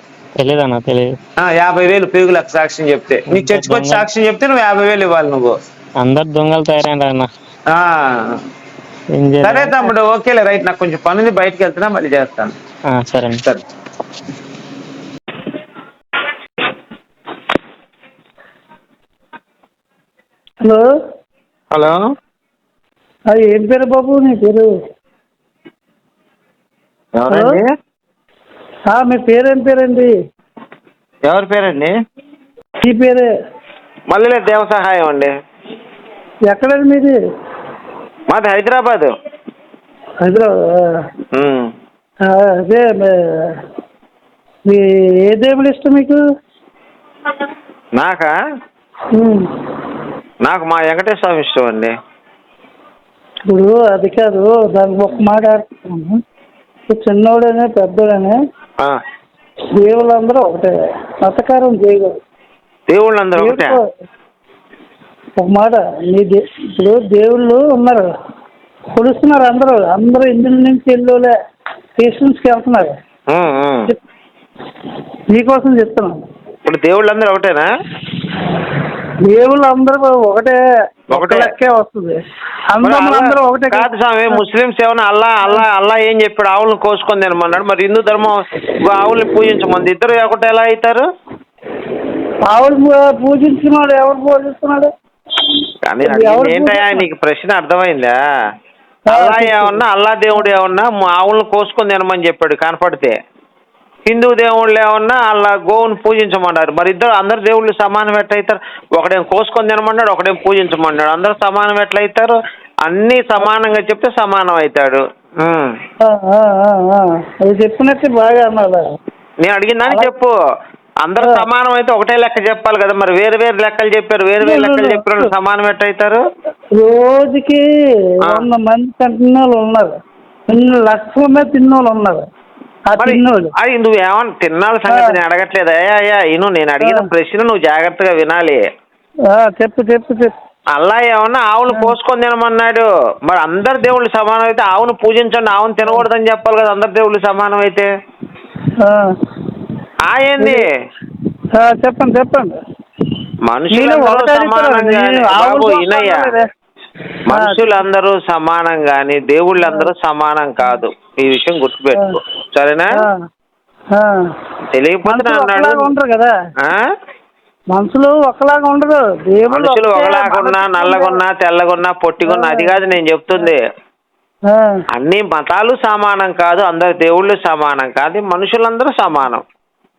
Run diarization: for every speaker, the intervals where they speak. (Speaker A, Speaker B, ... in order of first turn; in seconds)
Speaker A: 0.4-1.1, 3.3-4.0, 6.0-7.3, 9.2-9.9, 12.9-13.4
Speaker B: 1.4-5.5, 7.7-8.4, 9.4-12.5, 21.7-22.0, 27.2-27.7, 31.3-31.9, 34.1-35.3, 38.3-39.1, 41.3-41.7, 48.0-48.3, 50.4-51.9, 62.9-63.8, 73.3-73.9, 76.7-77.7, 81.1-81.5, 82.8-91.0, 95.8-98.2, 99.1-103.2, 104.1-115.7, 119.4-120.3, 121.0-126.2, 133.0-138.7, 140.7-147.9, 150.0-150.7, 153.4-156.3, 157.3-162.9, 164.7-165.9, 169.5-173.6, 174.9-179.4
Speaker C: 20.6-20.9, 23.3-24.7, 27.3-27.6, 28.9-30.1, 32.8-33.3, 36.5-37.1, 40.2-41.0, 42.2-43.6, 44.7-46.2, 49.1-49.5, 53.5-56.2, 56.9-58.4, 59.8-62.2, 63.4-63.9, 65.4-68.1, 69.0-71.3, 72.0-72.9, 75.3-76.2, 79.3-80.6, 81.1-82.2, 82.7-84.4, 92.5-94.9, 96.0-97.0, 99.1-99.8, 116.0-118.8, 124.4-125.3, 126.8-127.6, 128.2-130.0, 130.5-132.2, 132.9-133.5, 134.9-135.2, 136.8-137.1, 139.3-140.3, 148.8-149.1, 151.6-152.6, 153.7-156.5, 157.3-157.7, 159.6-159.9, 163.9-164.3, 165.1-166.3, 167.7-171.2, 172.2-172.8, 174.5-174.8